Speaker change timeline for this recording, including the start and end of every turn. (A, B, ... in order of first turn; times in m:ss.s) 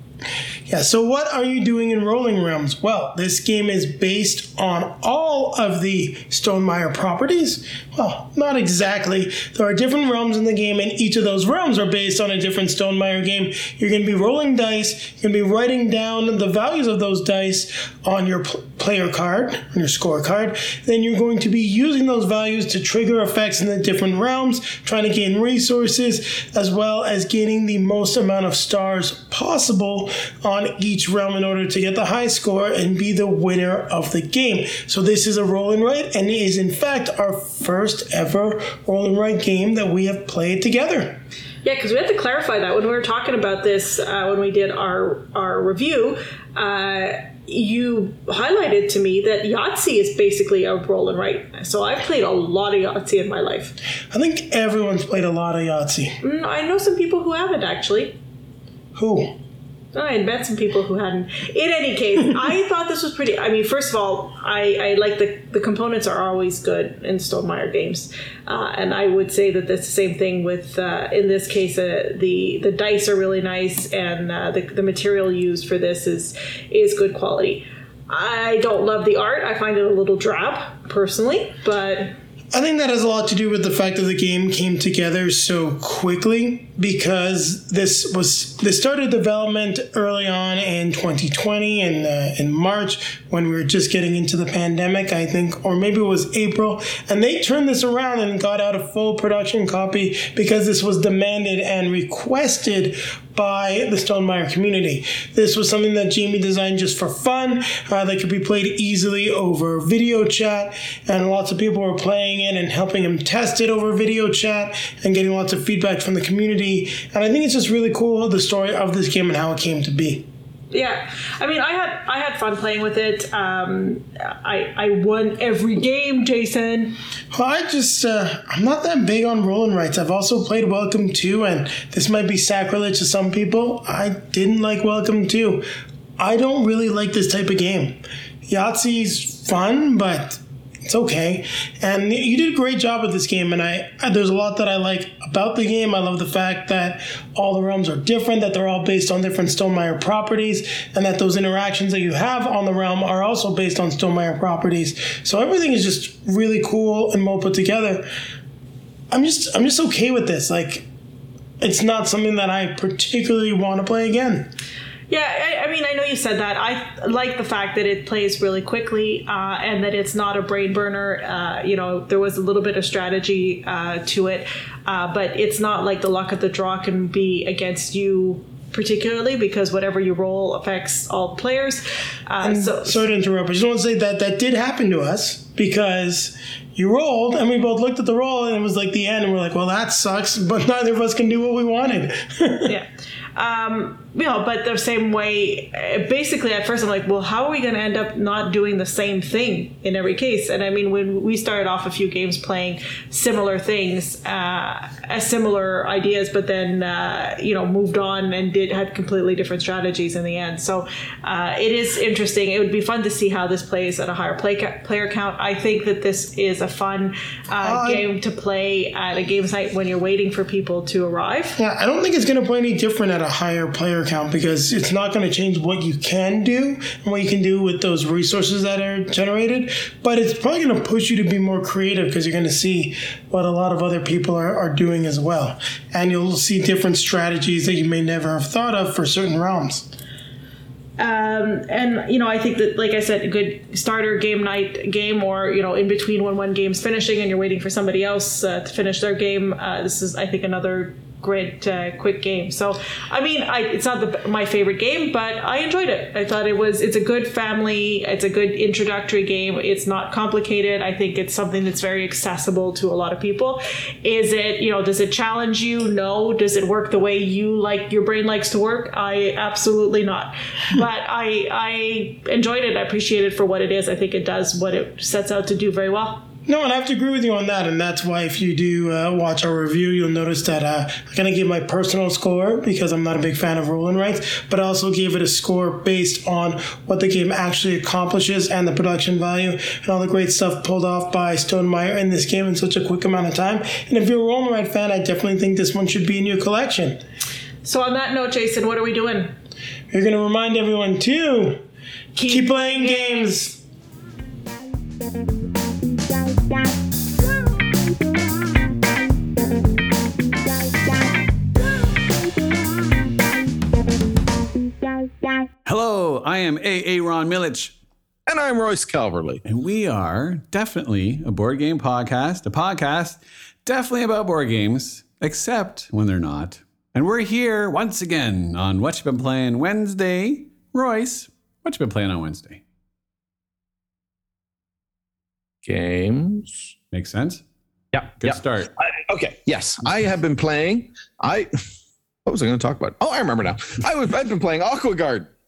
0:00.7-0:41.2 A
0:41.6-0:53.8 B
0:54.1-0:56.2 A
0:56.2-0:58.2 B
0:58.9-0:59.4 A
0:59.9-1:22.1 B
1:22.5-2:00.3 A
2:00.7-2:06.9 B
2:07.3-2:15.6 A
2:16.2-2:38.0 A
2:39.1-2:40.8 A
2:41.6-2:44.5 A
2:45.1-3:03.0 B
3:02.4-3:12.7 A
3:12.7-3:41.6 B
3:37.6-3:38.0 A
3:41.6-3:59.9 A
4:01.0-4:36.2 B
4:36.4-4:57.0 A
4:57.6-4:59.4 B
4:59.9-5:01.6 A
5:02.2-5:03.6 B
5:02.2-5:03.5 A
5:15.6-5:17.8 C
5:18.3-5:19.4 D
5:19.4-5:32.6 C
5:35.6-5:36.7 D
5:36.9-5:37.4 C
5:37.9-5:41.5 D
5:38.2-5:38.7 C
5:42.2-5:45.3 D